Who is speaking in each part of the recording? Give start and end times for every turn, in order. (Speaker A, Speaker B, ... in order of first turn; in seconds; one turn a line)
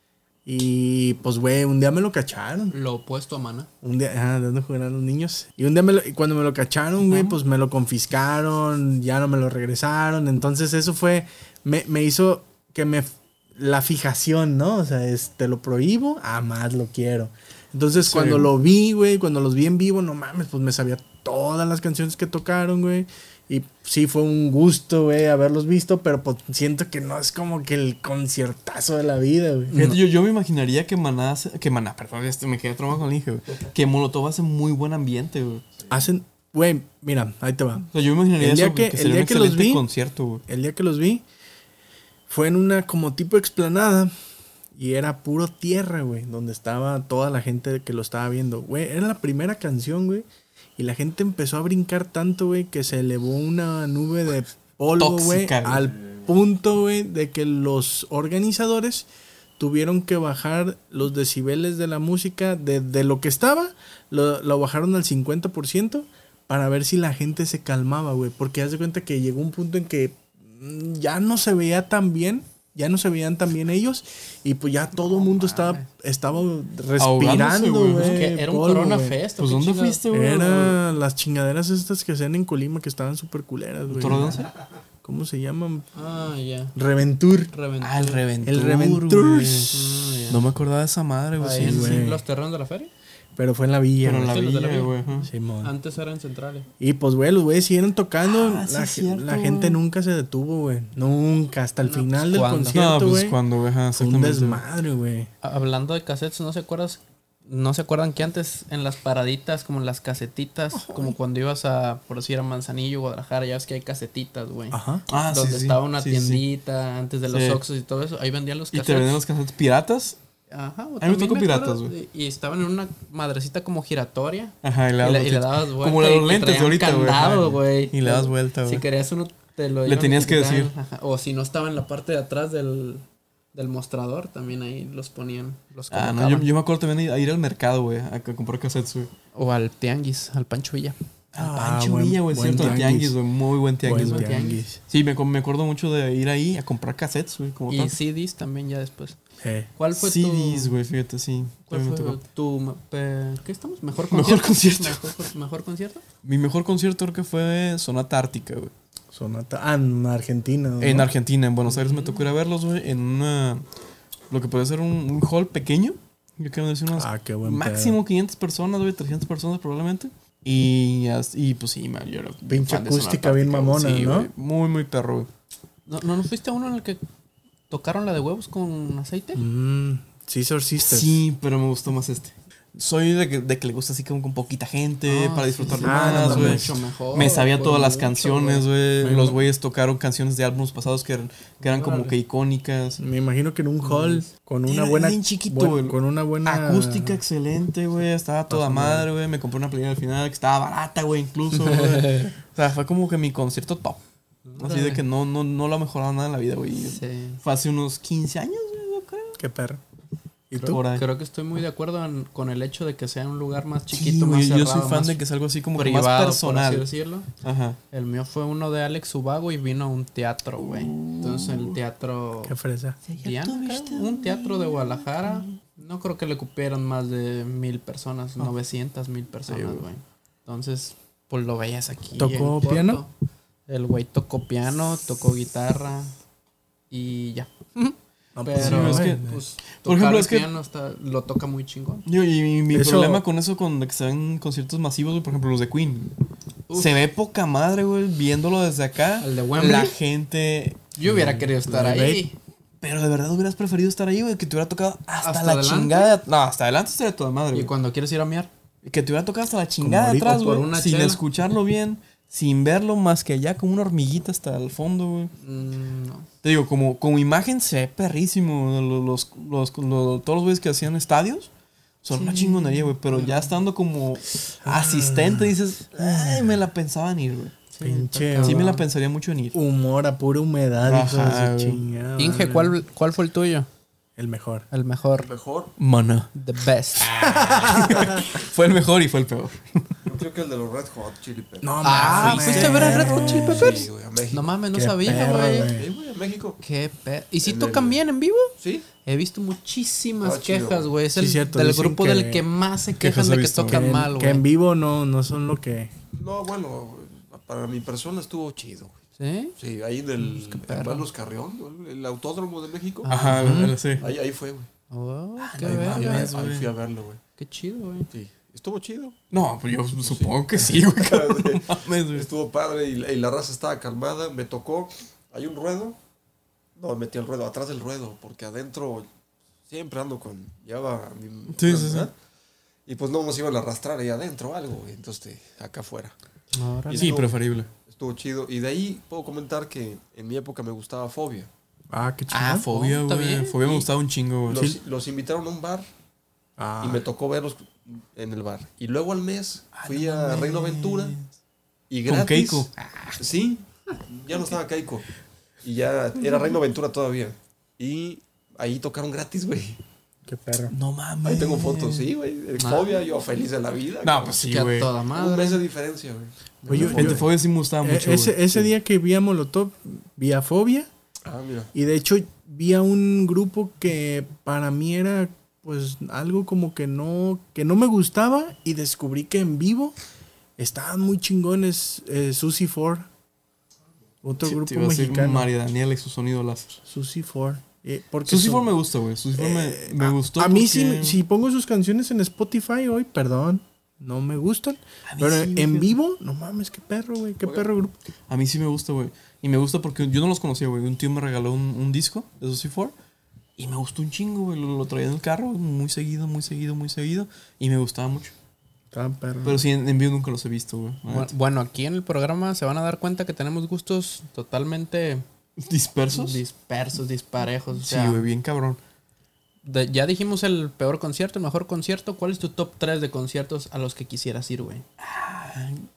Speaker A: 0.5-2.7
Speaker B: 2.7-3.7
Speaker A: 3.8-29.8
Speaker C: 7.1-7.4
Speaker C: 18.0-18.5
Speaker B: 29.7-30.0
Speaker C: 29.7-35.6
Speaker A: 35.9-39.8
Speaker C: 37.9-40.4
Speaker A: 40.5-41.2
Speaker A: 42.3-44.1
Speaker A: 44.7-50.2
Speaker A: 50.8-59.1
Speaker C: 55.0-55.9
Speaker A: 59.6-79.2
Speaker B: 75.2-75.8
Speaker C: 77.0-78.2
Speaker B: 78.0-80.0
Speaker C: 79.4-80.8
Speaker A: 80.1-84.4
Speaker C: 83.9-84.5
Speaker A: 85.0-85.9
Speaker B: 85.9-86.7
Speaker A: 86.7-87.5
Speaker B: 87.5-88.2
Speaker C: 87.8-89.8
Speaker A: 88.4-89.7
Speaker B: 89.7-90.4
Speaker C: 90.3-92.1
Speaker B: 91.4-92.9
Speaker A: 91.6-92.2
Speaker A: 93.3-94.4
Speaker C: 94.0-95.3
Speaker B: 94.2-96.7
Speaker A: 95.2-95.7
Speaker A: 96.8-103.4
Speaker C: 98.2-99.8
Speaker B: 101.8-102.8
Speaker C: 102.7-104.6
Speaker A: 103.9-105.3
Speaker B: 105.4-119.2
Speaker A: 114.7-115.0
Speaker C: 115.1-116.4
Speaker C: 117.3-117.6
Speaker C: 118.7-120.2
Speaker B: 120.5-136.5
Speaker C: 121.0-121.9
Speaker C: 124.6-128.8
Speaker C: 129.8-130.7
Speaker C: 135.9-139.1
Speaker B: 139.3-141.0
Speaker C: 141.3-147.9
Speaker A: 141.3-143.2
Speaker A: 143.8-144.8
Speaker B: 143.9-144.6
Speaker B: 147.7-149.2
Speaker A: 149.4-149.7
Speaker B: 149.8-150.7
Speaker C: 149.9-152.2
Speaker B: 151.7-156.0
Speaker C: 154.1-155.0
Speaker C: 156.2-158.7
Speaker A: 159.1-161.1
Speaker C: 160.8-163.6
Speaker B: 161.7-162.2
Speaker C: 164.3-175.3
Speaker A: 166.9-168.0
Speaker A: 172.5-174.3
Speaker B: 175.9-177.0
Speaker B: 177.7-179.4
Speaker A: 179.3-181.2
Speaker C: 180.8-193.0
Speaker B: 185.1-188.7
Speaker A: 185.8-186.8
Speaker A: 189.0-189.4
Speaker B: 191.6-192.1
Speaker A: 193.0-197.2
Speaker C: 193.8-204.0
Speaker A: 198.5-199.1
Speaker B: 201.6-202.3
Speaker B: 204.5-205.0
Speaker C: 204.6-209.4
Speaker B: 206.9-207.4
Speaker A: 209.4-209.8
Speaker A: 210.5-210.8
Speaker C: 210.6-211.1
Speaker B: 210.6-215.2
Speaker C: 213.9-216.9
Speaker B: 215.7-217.3
Speaker C: 217.4-217.8
Speaker B: 217.9-222.5
Speaker C: 220.6-221.8
Speaker A: 222.4-223.0
Speaker C: 223.1-225.5
Speaker B: 223.2-233.1
Speaker C: 229.5-229.8
Speaker A: 232.2-233.0
Speaker B: 233.7-236.1
Speaker B: 236.9-242.1
Speaker A: 238.3-239.4
Speaker C: 238.5-240.5
Speaker C: 242.1-246.1
Speaker A: 242.7-243.2
Speaker B: 246.7-247.0
Speaker C: 246.7-251.3
Speaker B: 249.2-249.9
Speaker B: 250.9-252.3
Speaker A: 251.1-252.2
Speaker C: 252.8-257.7
Speaker B: 255.2-256.2
Speaker B: 257.5-258.5
Speaker C: 258.8-265.3
Speaker A: 259.8-260.4
Speaker B: 260.2-261.2
Speaker B: 265.4-266.3
Speaker C: 266.4-271.5
Speaker C: 272.0-277.6
Speaker B: 272.1-273.5
Speaker A: 274.6-276.6
Speaker B: 277.7-278.8
Speaker A: 277.8-278.7
Speaker C: 278.4-279.6
Speaker A: 279.5-282.8
Speaker C: 280.8-281.8
Speaker B: 282.2-283.7
Speaker A: 284.2-284.6
Speaker B: 284.7-285.3
Speaker D: 285.1-285.7
Speaker C: 285.8-286.3
Speaker B: 286.3-287.2
Speaker A: 287.2-288.3
Speaker C: 287.6-289.9
Speaker D: 290.0-292.0
Speaker A: 291.6-293.8
Speaker B: 291.8-295.7
Speaker C: 292.0-293.4
Speaker D: 292.6-294.5
Speaker A: 294.7-295.9
Speaker D: 295.6-296.6
Speaker B: 296.6-304.4
Speaker D: 297.4-298.0
Speaker D: 298.6-298.9
Speaker D: 300.2-300.9
Speaker A: 301.1-302.4
Speaker C: 303.0-303.8
Speaker A: 303.6-305.9
Speaker D: 306.1-309.0
Speaker B: 309.2-309.5
Speaker D: 309.6-313.1
Speaker B: 310.2-311.1
Speaker B: 313.0-313.7
Speaker C: 313.1-314.1
Speaker A: 313.3-313.8
Speaker D: 314.0-314.7
Speaker B: 314.9-316.3
Speaker C: 315.4-316.7
Speaker D: 315.6-317.2
Speaker B: 317.4-318.1
Speaker D: 318.1-319.2
Speaker C: 319.3-322.3
Speaker D: 320.0-326.0
Speaker D: 326.8-329.1
Speaker D: 329.7-332.1
Speaker C: 331.5-332.1
Speaker D: 332.9-336.1
Speaker B: 336.5-337.2
Speaker D: 336.9-337.3
Speaker C: 336.9-337.7
Speaker D: 337.9-341.5
Speaker A: 341.9-342.6
Speaker B: 342.3-343.9
Speaker C: 342.5-344.7
Speaker D: 344.5-345.9
Speaker A: 346.6-347.0
Speaker D: 346.8-351.1
Speaker C: 349.7-351.2
Speaker D: 351.9-355.1
Speaker C: 352.1-352.7
Speaker D: 355.6-359.8
Speaker A: 360.3-360.7
Speaker C: 360.7-362.1
Speaker D: 361.2-364.3
Speaker B: 362.6-363.0
Speaker C: 364.0-364.9
Speaker B: 364.2-365.6
Speaker D: 365.1-367.2
Speaker A: 366.6-367.3
Speaker C: 366.7-368.7
Speaker A: 367.8-370.9
Speaker D: 371.2-371.7
Speaker A: 371.7-379.9
Speaker A: 380.6-383.1
Speaker A: 384.2-385.5
Speaker C: 384.4-386.8
Speaker A: 386.8-388.7
Speaker C: 388.2-391.2
Speaker A: 389.4-397.9
Speaker C: 395.1-395.9
Speaker C: 398.3-402.9
Speaker C: 403.6-408.3
Speaker A: 408.9-409.7
Speaker C: 409.4-411.3
Speaker B: 411.1-415.2
Speaker C: 415.6-416.4
Speaker B: 416.1-418.2
Speaker C: 417.8-418.8
Speaker B: 419.6-424.8
Speaker C: 425.0-425.9